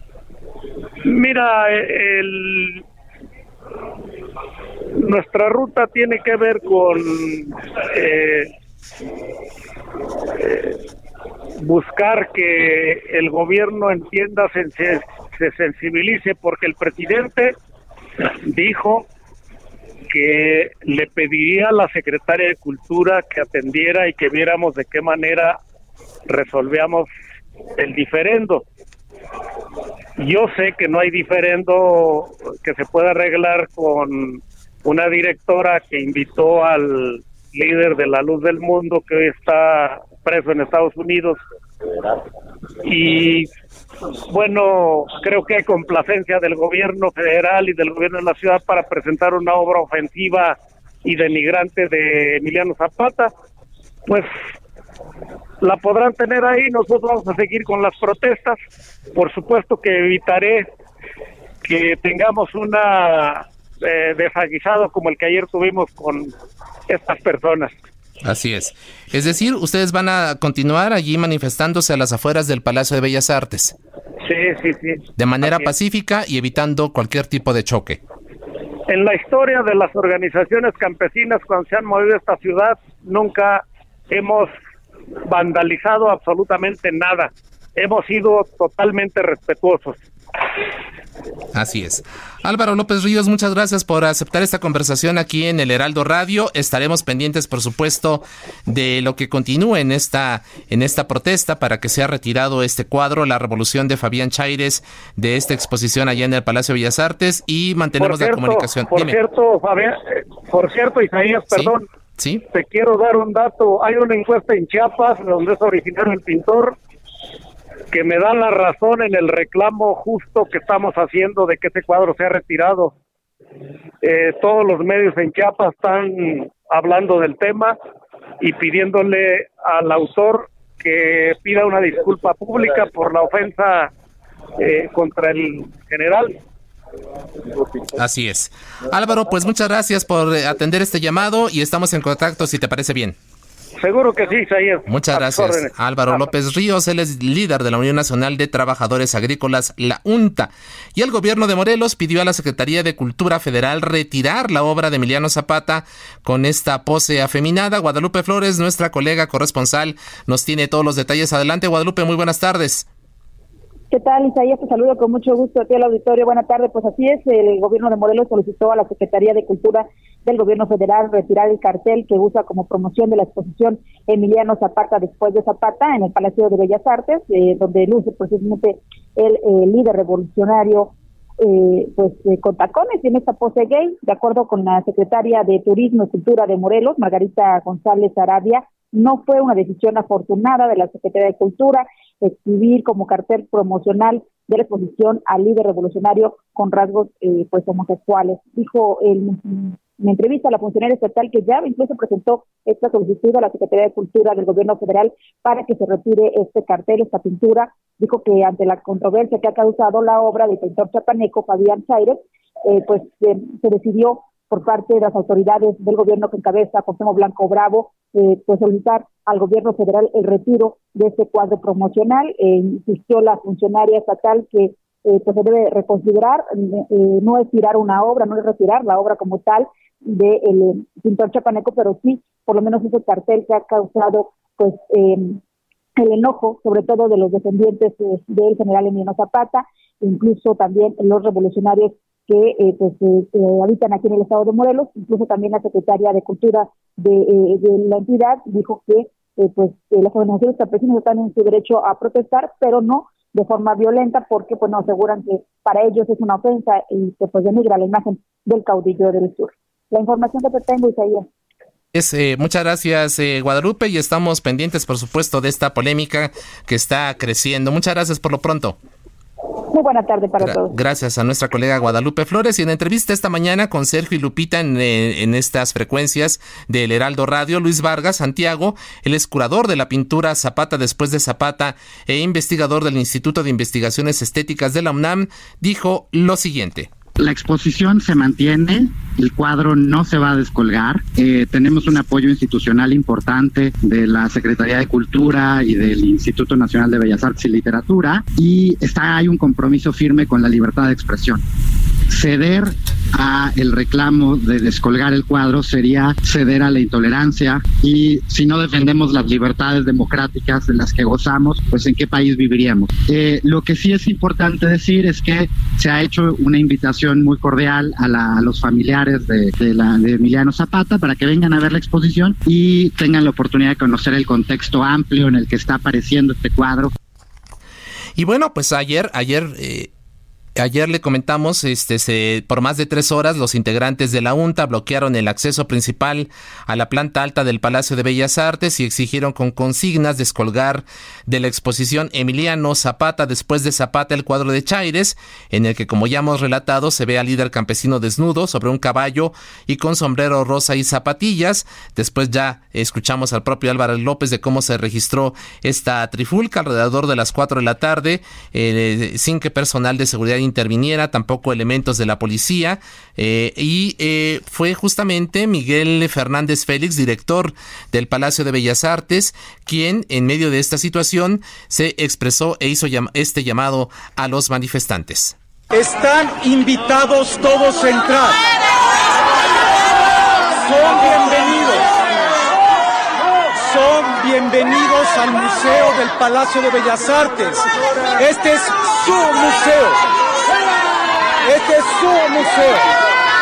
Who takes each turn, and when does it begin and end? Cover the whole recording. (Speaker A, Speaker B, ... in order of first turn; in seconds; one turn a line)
Speaker A: 1.0-2.8
Speaker A: 4.9-8.5
Speaker A: 10.3-10.8
Speaker A: 11.6-17.6
Speaker A: 18.2-19.1
Speaker A: 20.1-25.6
Speaker A: 26.3-27.1
Speaker A: 27.8-28.6
Speaker A: 30.2-41.4
Speaker A: 42.8-43.5
Speaker A: 44.3-53.3
Speaker A: 55.6-58.6
Speaker A: 59.1-60.7
Speaker A: 61.6-66.3
Speaker A: 66.9-67.7
Speaker B: 68.2-73.7
Speaker A: 74.2-75.7
Speaker B: 75.2-78.0
Speaker A: 78.9-84.5
Speaker A: 85.2-90.0
Speaker B: 91.5-109.2
Speaker A: 108.0-111.8
Speaker B: 111.5-112.4
Speaker A: 112.5-116.8
Speaker A: 117.9-123.0
Speaker A: 124.0-127.8
Speaker A: 128.4-133.9
Speaker A: 134.6-136.4
Speaker B: 137.9-143.2
Speaker A: 143.8-146.3
Speaker B: 144.9-162.9
Speaker C: 163.9-235.4
Speaker C: 235.9-261.3
Speaker B: 261.9-268.8
Speaker C: 269.7-270.7
Speaker B: 270.4-286.9
Speaker D: 287.2-301.4
Speaker D: 302.1-326.9
Speaker B: 328.1-329.9
Speaker B: 330.6-375.3
Speaker E: 375.7-378.4
Speaker E: 380.6-381.9
Speaker E: 383.6-387.6
Speaker E: 388.2-390.0
Speaker E: 391.4-392.9